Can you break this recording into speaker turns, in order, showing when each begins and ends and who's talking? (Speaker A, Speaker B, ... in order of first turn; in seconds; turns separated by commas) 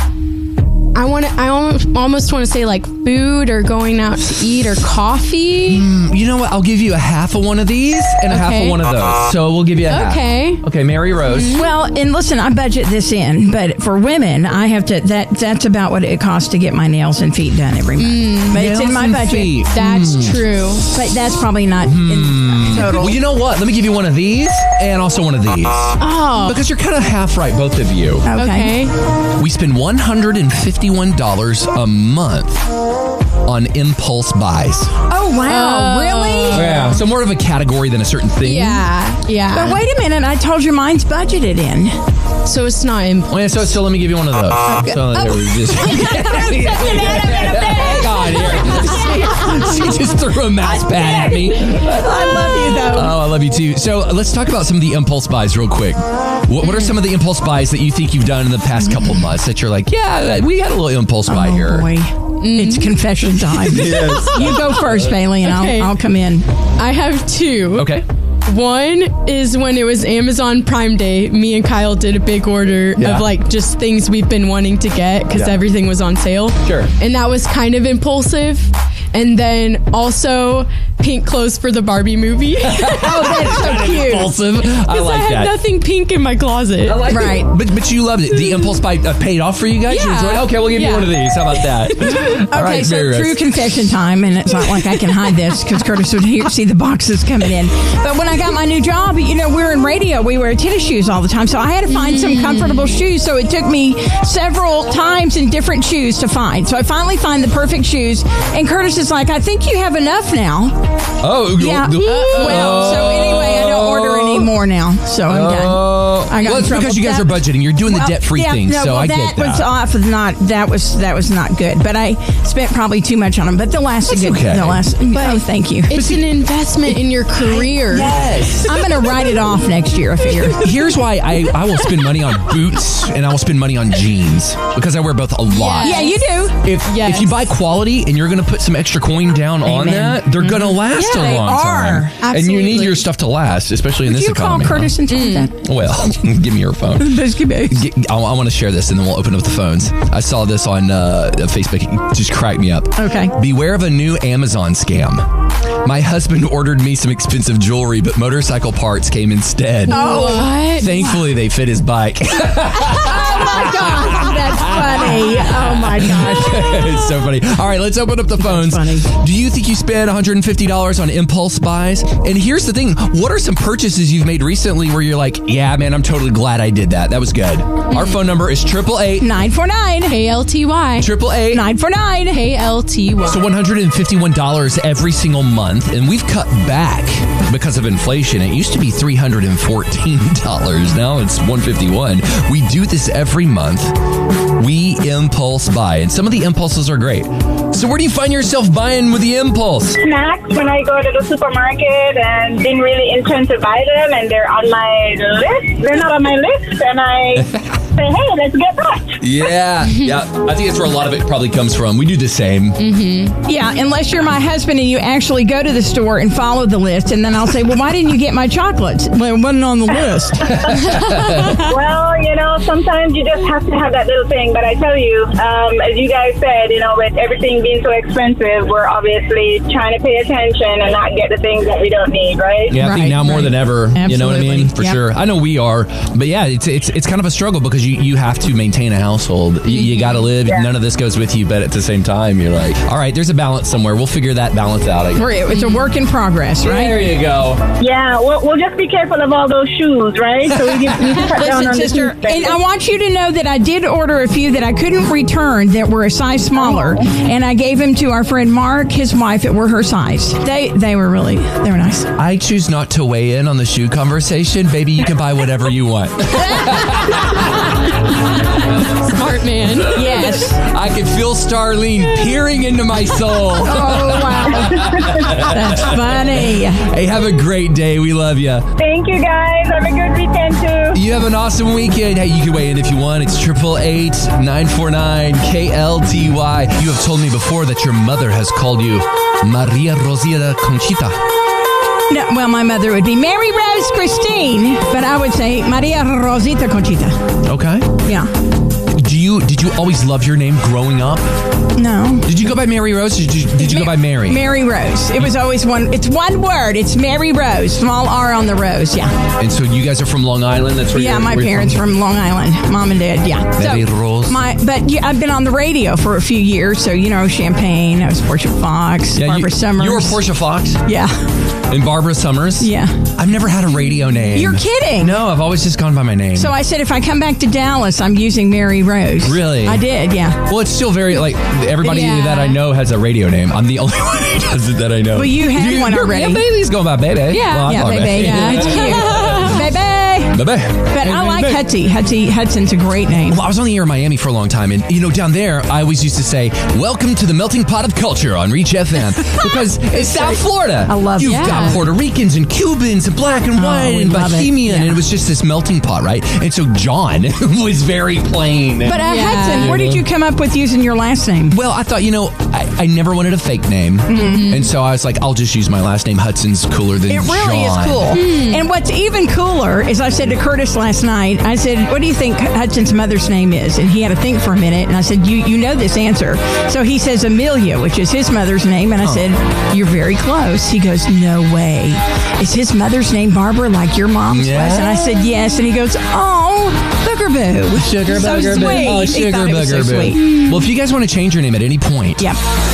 Speaker A: 0.9-5.8, Speaker B: 5.7-11.5, Speaker A: 8.3-8.8, Speaker A: 9.9-10.6, Speaker A: 11.2-11.7, Speaker C: 11.5-19.6, Speaker A: 18.0-18.6, Speaker B: 18.5-20.4, Speaker A: 19.7-20.9, Speaker C: 20.9-23.2, Speaker B: 21.9-28.3, Speaker A: 26.0-26.6, Speaker C: 28.2-28.8, Speaker A: 28.3-28.9, Speaker B: 29.4-32.6, Speaker B: 33.4-35.0, Speaker C: 35.1-36.8, Speaker A: 35.5-37.0, Speaker B: 36.5-38.9, Speaker A: 38.4-39.8, Speaker C: 39.5-42.0, Speaker A: 42.4-43.3, Speaker B: 43.3-51.9, Speaker C: 44.7-49.8, Speaker C: 50.6-53.2, Speaker B: 52.8-61.9, Speaker C: 61.3-66.5, Speaker A: 62.4-63.0, Speaker B: 63.4-65.2, Speaker A: 65.4-65.9, Speaker A: 66.8-83.7, Speaker B: 67.7-68.0, Speaker B: 73.0-73.3, Speaker B: 75.3-75.6, Speaker B: 76.6-76.9, Speaker B: 82.6-85.5, Speaker C: 83.0-84.3, Speaker A: 84.9-87.4, Speaker B: 86.8-93.8, Speaker C: 87.1-87.5, Speaker A: 89.9-92.4, Speaker C: 92.5-111.0, Speaker A: 101.9-103.0, Speaker B: 111.2-114.5, Speaker C: 111.5-126.0, Speaker A: 112.0-113.1, Speaker B: 115.2-119.7, Speaker B: 124.1-125.0, Speaker A: 125.9-128.2, Speaker B: 125.9-126.2, Speaker C: 127.4-128.1, Speaker B: 127.9-128.8, Speaker C: 128.6-130.7, Speaker B: 130.6-145.0, Speaker A: 135.5-136.2, Speaker C: 135.8-136.6, Speaker A: 136.9-137.3, Speaker C: 139.6-142.1, Speaker A: 140.7-141.4, Speaker A: 142.2-143.1, Speaker C: 144.0-145.5, Speaker A: 145.1-145.5, Speaker B: 145.5-155.3, Speaker C: 147.0-147.9, Speaker C: 152.9-153.3, Speaker B: 155.8-179.3, Speaker A: 159.9-161.1, Speaker C: 159.9-161.2, Speaker C: 162.8-167.1, Speaker C: 168.4-169.1, Speaker A: 177.9-178.2, Speaker C: 179.2-180.2, Speaker A: 180.1-181.1, Speaker B: 181.0-181.7, Speaker C: 181.5-182.4, Speaker A: 182.3-183.4, Speaker B: 183.2-200.0, Speaker D: 200.0-209.4, Speaker B: 207.3-207.7, Speaker B: 209.2-212.8, Speaker A: 212.8-213.3, Speaker C: 213.4-220.7, Speaker B: 220.4-221.6, Speaker A: 220.9-221.6, Speaker D: 221.5-232.8, Speaker B: 232.7-245.3, Speaker C: 232.7-235.0, Speaker C: 245.1-247.1, Speaker A: 245.5-245.8, Speaker B: 246.6-247.6, Speaker D: 247.8-252.6, Speaker B: 250.4-251.2, Speaker C: 251.2-262.1, Speaker B: 262.1-267.9, Speaker A: 268.8-270.3, Speaker C: 269.9-270.6, Speaker B: 269.9-278.7, Speaker C: 273.5-276.9, Speaker D: 278.8-281.0, Speaker B: 280.9-291.2, Speaker C: 292.1-297.2, Speaker B: 297.4-298.0, Speaker C: 298.0-298.3, Speaker B: 298.9-301.2, Speaker C: 301.7-302.4, Speaker B: 302.2-304.4, Speaker C: 303.6-309.1, Speaker B: 309.4-311.8, Speaker C: 310.9-320.2, Speaker B: 313.5-314.4, Speaker B: 319.1-320.8, Speaker C: 320.8-321.1, Speaker B: 321.7-326.6, Speaker C: 322.6-323.0, Speaker C: 324.3-325.2, Speaker C: 326.3-330.4, Speaker B: 329.2-329.8, Speaker B: 330.4-339.6, Speaker A: 331.8-332.6, Speaker C: 335.1-336.5, Speaker A: 337.3-339.7, Speaker C: 337.6-343.4, Speaker B: 340.3-341.7, Speaker B: 343.2-360.1, Speaker C: 349.9-351.8, Speaker A: 351.2-351.8, Speaker C: 353.5-355.0, Speaker C: 358.8-361.6, Speaker A: 359.0-359.7, Speaker B: 361.5-368.2, Speaker C: 364.1-364.6, Speaker A: 364.1-364.7, Speaker C: 367.1-390.4, Speaker A: 368.1-368.7, Speaker B: 379.0-379.3, Speaker B: 384.3-385.1, Speaker B: 387.8-392.4